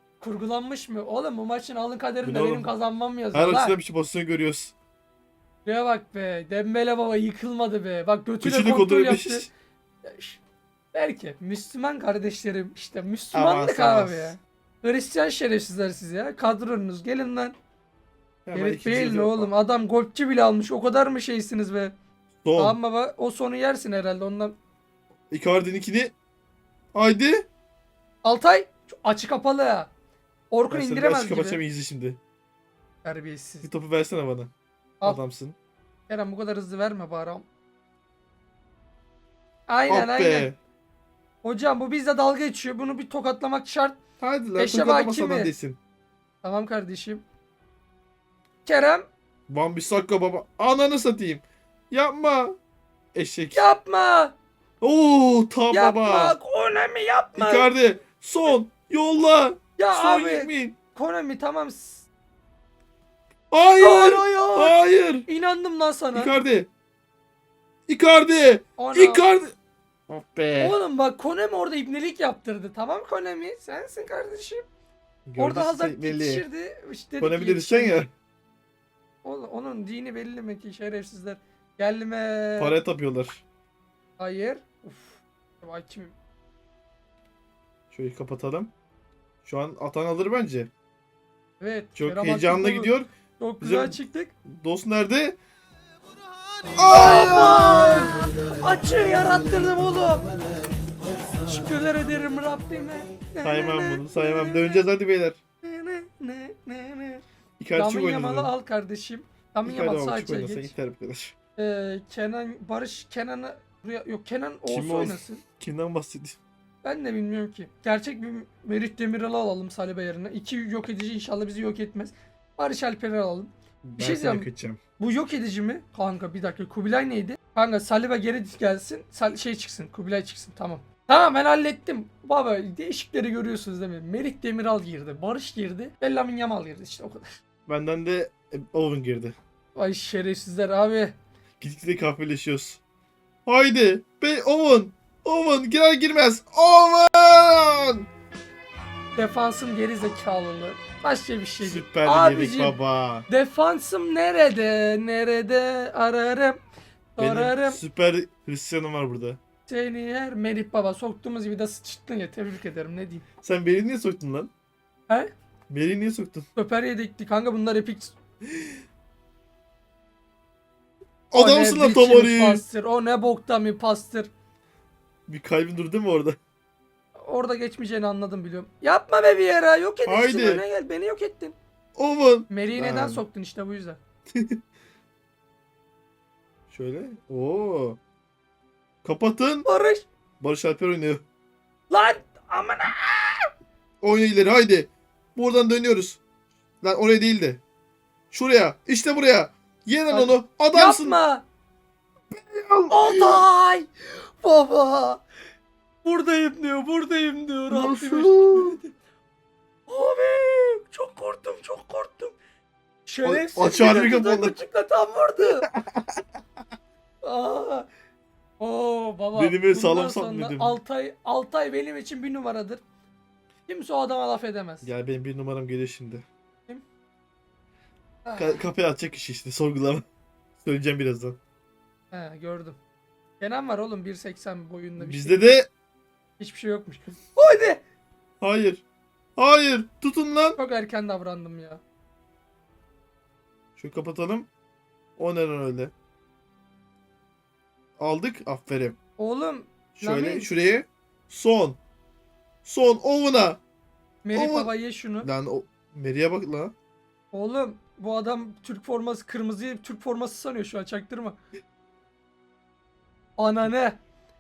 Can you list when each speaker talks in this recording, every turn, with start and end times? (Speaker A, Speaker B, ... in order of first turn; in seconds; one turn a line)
Speaker A: 0.2-3.8
Speaker B: 2.2-2.7
Speaker B: 3.3-4.7
Speaker A: 5.7-9.5
Speaker B: 8.4-9.5
Speaker A: 10.0-10.4
Speaker A: 10.9-17.5
Speaker B: 13.3-14.3
Speaker B: 18.5-19.5
Speaker A: 18.5-21.9
Speaker B: 22.4-22.8
Speaker A: 22.6-24.6
Speaker B: 25.3-26.1
Speaker B: 26.9-27.5
Speaker A: 28.2-29.9
Speaker A: 30.5-31.6
Speaker B: 30.7-32.2
Speaker A: 33.0-33.7
Speaker B: 33.6-34.5
Speaker B: 35.0-35.5
Speaker A: 36.1-37.5
Speaker A: 39.7-40.5
Speaker B: 39.9-40.6
Speaker A: 41.4-44.0
Speaker B: 44.2-45.8
Speaker A: 44.6-45.5
Speaker A: 46.4-47.2
Speaker A: 48.6-49.1
Speaker B: 49.5-52.6
Speaker B: 53.1-53.7
Speaker A: 53.5-54.4
Speaker B: 54.8-56.4
Speaker A: 55.7-57.7
Speaker B: 57.4-60.8
Speaker A: 59.8-62.1
Speaker B: 63.5-65.3
Speaker A: 63.8-66.3
Speaker B: 66.1-66.7
Speaker B: 67.9-69.5
Speaker A: 68.8-69.3
Speaker B: 70.1-70.8
Speaker A: 70.6-74.7
Speaker B: 75.3-76.5
Speaker A: 75.4-78.0
Speaker B: 77.2-78.1
Speaker A: 79.2-82.8
Speaker B: 82.6-83.4
Speaker A: 84.2-86.2
Speaker B: 87.9-88.7
Speaker B: 89.4-90.7
Speaker A: 91.6-94.3
Speaker B: 92.0-93.1
Speaker B: 93.6-95.4
Speaker B: 96.8-98.1
Speaker A: 96.9-100.3
Speaker A: 101.4-104.8
Speaker B: 103.4-105.4
Speaker A: 105.6-107.2
Speaker B: 107.6-108.5
Speaker A: 107.8-110.7
Speaker B: 109.7-111.3
Speaker A: 111.6-115.4
Speaker B: 114.7-116.4
Speaker A: 116.8-124.5
Speaker B: 123.8-124.8
Speaker A: 125.0-137.3
Speaker B: 137.7-139.3
Speaker A: 139.8-141.1
Speaker B: 141.6-142.8
Speaker B: 143.5-148.1
Speaker A: 149.2-152.8
Speaker B: 151.6-153.3
Speaker A: 153.3-156.6
Speaker A: 157.2-157.8
Speaker B: 157.2-159.4
Speaker A: 159.7-163.2
Speaker B: 163.4-164.5
Speaker B: 165.7-166.5
Speaker A: 166.6-168.2
Speaker B: 171.3-172.6
Speaker A: 171.3-174.3
Speaker B: 175.3-176.4
Speaker A: 177.3-181.6
Speaker B: 180.1-180.6
Speaker B: 182.0-183.2
Speaker A: 182.5-184.0
Speaker B: 184.3-184.6
Speaker B: 186.7-188.0
Speaker B: 189.0-189.7
Speaker A: 189.7-190.1
Speaker B: 190.4-191.2
Speaker A: 191.9-193.5
Speaker B: 194.0-196.2
Speaker B: 196.8-197.6
Speaker B: 198.3-201.2
Speaker A: 200.1-201.4
Speaker B: 202.3-203.4
Speaker A: 202.9-205.2
Speaker A: 206.0-208.9
Speaker B: 207.7-208.8
Speaker A: 209.9-212.4
Speaker A: 213.1-215.7
Speaker B: 213.2-214.6
Speaker B: 215.7-216.2
Speaker A: 217.2-217.9
Speaker A: 218.6-222.8
Speaker B: 219.3-220.8
Speaker A: 223.7-224.9
Speaker B: 224.8-226.2
Speaker A: 228.2-228.6
Speaker B: 228.4-230.1
Speaker B: 230.6-231.4
Speaker A: 232.1-232.8
Speaker A: 233.4-235.6
Speaker B: 235.0-235.7
Speaker A: 236.4-237.8
Speaker B: 238.4-238.8
Speaker B: 239.4-240.6
Speaker A: 240.6-241.8
Speaker B: 243.8-244.5
Speaker B: 245.2-245.9
Speaker B: 248.0-249.0
Speaker A: 249.2-250.5
Speaker B: 249.9-251.8
Speaker B: 252.7-253.6
Speaker A: 254.2-255.3
Speaker B: 254.3-254.7
Speaker B: 255.2-256.7
Speaker A: 257.3-261.4
Speaker A: 263.4-264.0